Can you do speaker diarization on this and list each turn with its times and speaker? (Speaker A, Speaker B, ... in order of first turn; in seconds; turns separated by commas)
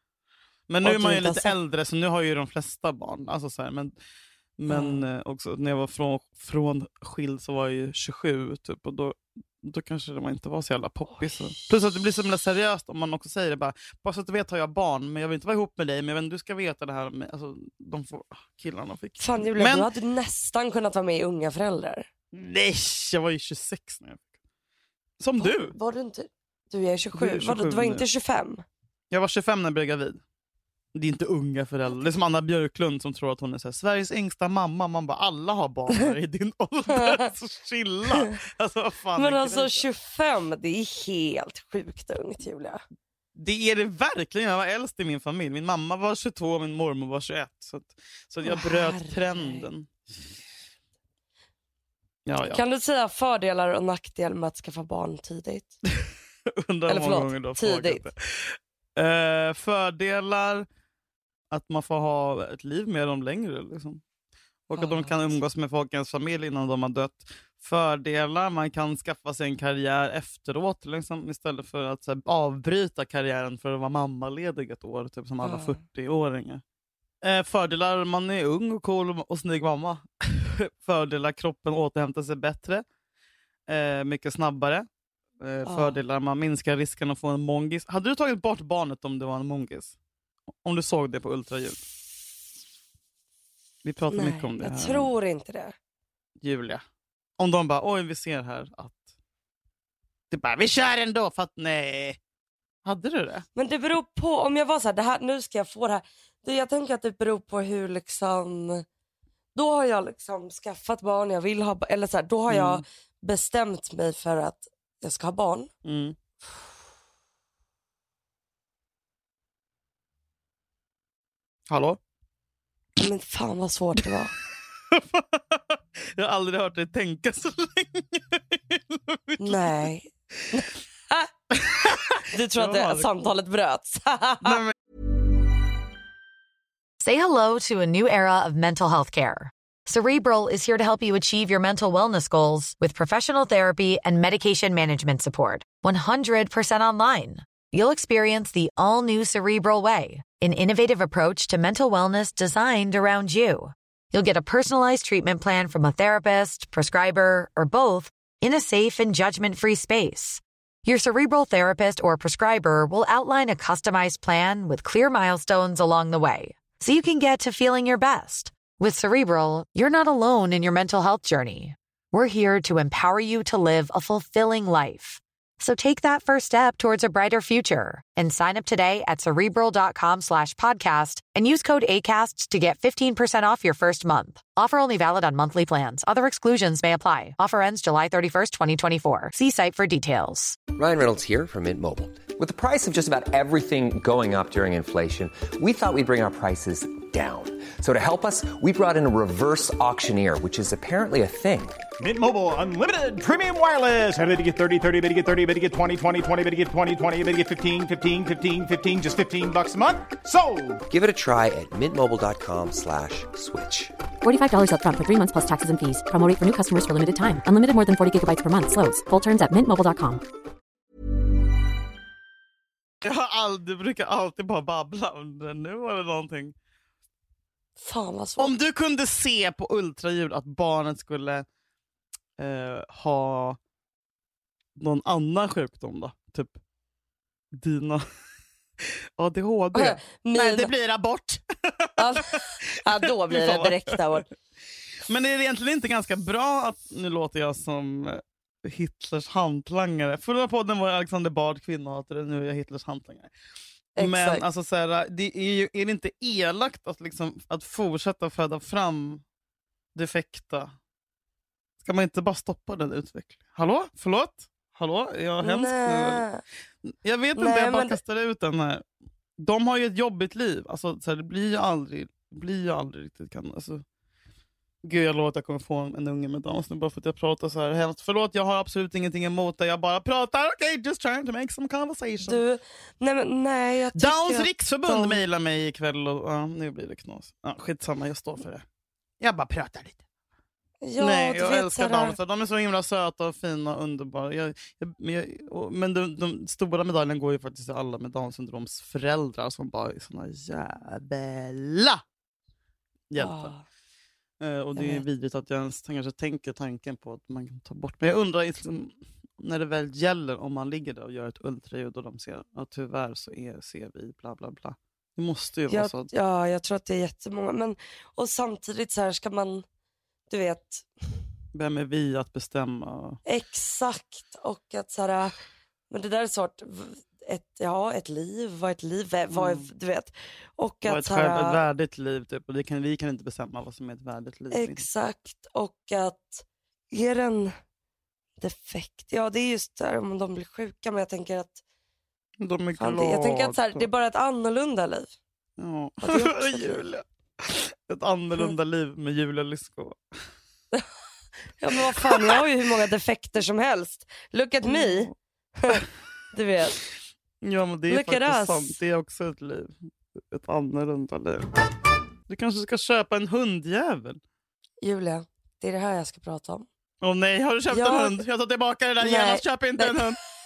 Speaker A: 0.7-4.0, Speaker B: 0.8-1.5, Speaker A: 4.6-19.9, Speaker B: 4.7-5.0, Speaker B: 19.2-22.1, Speaker A: 22.3-24.3, Speaker A: 25.2-25.7, Speaker B: 25.4-28.6, Speaker A: 27.1-28.0, Speaker A: 29.1-30.2, Speaker A: 30.9-39.8, Speaker B: 36.9-37.2, Speaker B: 39.2-42.8, Speaker A: 43.4-50.0, Speaker B: 48.4-49.7, Speaker A: 52.2-52.6, Speaker B: 52.5-55.8, Speaker A: 56.0-60.7, Speaker B: 56.9-58.0, Speaker A: 61.5-64.0, Speaker A: 64.7-76.6, Speaker B: 64.8-65.1, Speaker B: 75.4-75.8, Speaker A: 77.2-82.8, Speaker A: 83.7-84.9, Speaker A: 85.4-90.0, Speaker B: 85.6-86.0, Speaker A: 90.6-91.8, Speaker A: 93.8-95.1, Speaker B: 94.1-95.7, Speaker A: 96.4-96.8, Speaker A: 97.4-99.1, Speaker A: 100.3-102.2, Speaker A: 102.8-103.4, Speaker B: 103.5-108.8, Speaker B: 109.5-115.7, Speaker A: 112.5-112.8, Speaker A: 115.8-116.2, Speaker A: 121.7-122.0, Speaker B: 123.0-124.3, Speaker A: 124.9-129.7, Speaker B: 129.4-131.3, Speaker A: 131.6-133.3, Speaker B: 132.2-134.6, Speaker A: 134.4-134.7, Speaker C: 137.0-190.6, Speaker D: 190.7-201.8, Speaker E: 202.0-210.8, Speaker D: 210.9-213.9, Speaker F: 214.2-220.2, Speaker A: 223.0-226.5, Speaker B: 227.8-228.6, Speaker A: 228.4-231.4, Speaker A: 232.4-233.6, Speaker A: 234.8-236.6, Speaker A: 237.5-238.0, Speaker A: 238.8-242.4, Speaker B: 239.7-240.7, Speaker B: 242.0-244.3, Speaker A: 243.0-244.0, Speaker A: 245.0-253.3, Speaker B: 253.9-254.4, Speaker A: 254.0-259.2, Speaker A: 259.9-260.7, Speaker A: 261.8-266.2, Speaker B: 265.4-266.4, Speaker A: 266.8-268.9, Speaker B: 267.4-268.0, Speaker A: 269.4-273.8, Speaker A: 274.8-282.4, Speaker B: 282.2-285.2, Speaker A: 283.9-288.6, Speaker A: 289.2-290.0, Speaker B: 290.8-292.2, Speaker A: 291.0-302.0, Speaker A: 303.1-303.5, Speaker B: 303.2-303.6, Speaker A: 304.4-316.1, Speaker B: 304.8-305.0, Speaker B: 315.7-319.6, Speaker B: 320.3-320.9, Speaker A: 321.5-323.2, Speaker B: 323.2-325.4, Speaker B: 325.9-331.6, Speaker A: 329.3-329.6, Speaker A: 330.8-334.9, Speaker B: 334.5-337.5, Speaker B: 338.4-341.6, Speaker A: 342.4-343.9, Speaker B: 342.8-345.1, Speaker A: 345.6-350.0, Speaker B: 346.0-346.8, Speaker B: 351.6-355.1, Speaker A: 351.9-352.4, Speaker A: 354.6-355.1, Speaker B: 355.6-356.8, Speaker A: 357.4-361.5, Speaker B: 357.9-358.8, Speaker A: 362.3-364.2, Speaker B: 364.8-366.7, Speaker A: 367.0-370.2, Speaker B: 367.7-368.2, Speaker B: 369.0-370.1